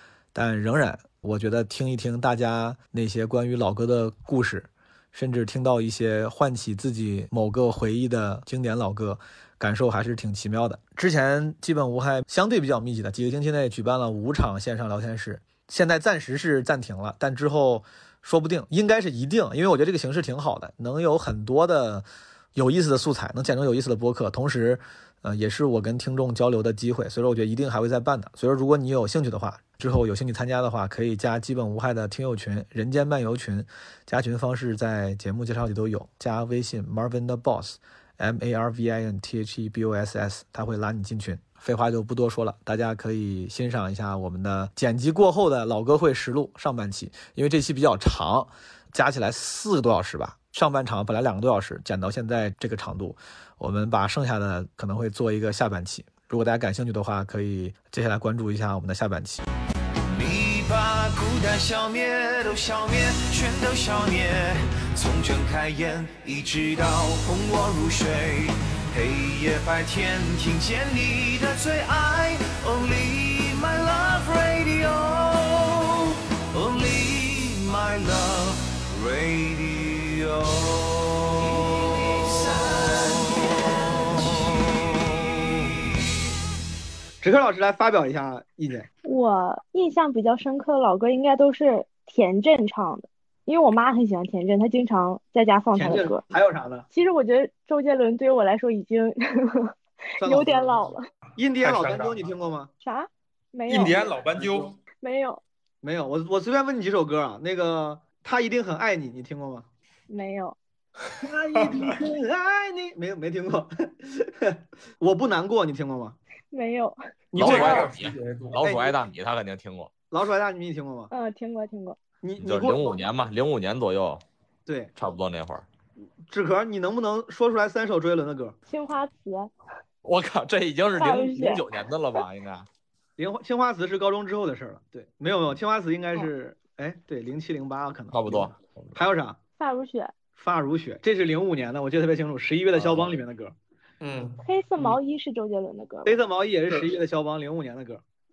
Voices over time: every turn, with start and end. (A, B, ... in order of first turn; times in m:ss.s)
0:00.3-0:59.4 A
1:00.2-1:04.3 B
1:05.0-1:08.3 B
1:09.5-1:14.6 B
1:16.6-1:18.5 B
1:27.2-1:28.9 C
1:29.0-1:36.2 D
1:35.7-1:36.8 C
1:36.9-1:39.7 D
1:40.2-1:40.8 C
1:40.2-1:41.0 D
1:41.4-1:42.7 C
1:41.6-1:42.2 E
1:42.8-1:44.1 D
1:43.7-1:44.8 E
1:45.0-1:45.4 D
1:45.8-1:49.7 C
1:50.1-1:50.5 D
1:51.2-1:56.2 C
1:51.6-1:51.9 E
1:56.5-1:56.9 D
1:57.3-1:57.9 C
1:57.4-1:59.9 F
1:57.4-1:58.6 E
1:58.6-1:58.9 C
2:00.1-2:01.1 C
2:01.1-2:02.0 D
2:02.2-2:02.9 C
2:02.4-2:04.2 F
2:05.0-2:05.6 F
2:06.3-2:08.6 C
2:08.7-2:09.5 D
2:10.0-2:12.7 F
2:10.9-2:11.6 D
2:13.2-2:19.4 C
2:18.1-2:18.9 F
2:19.6-2:20.1 D
2:20.4-2:23.5 C
2:24.0-2:24.9 E
2:24.4-2:26.2 D
2:26.0-2:28.0 C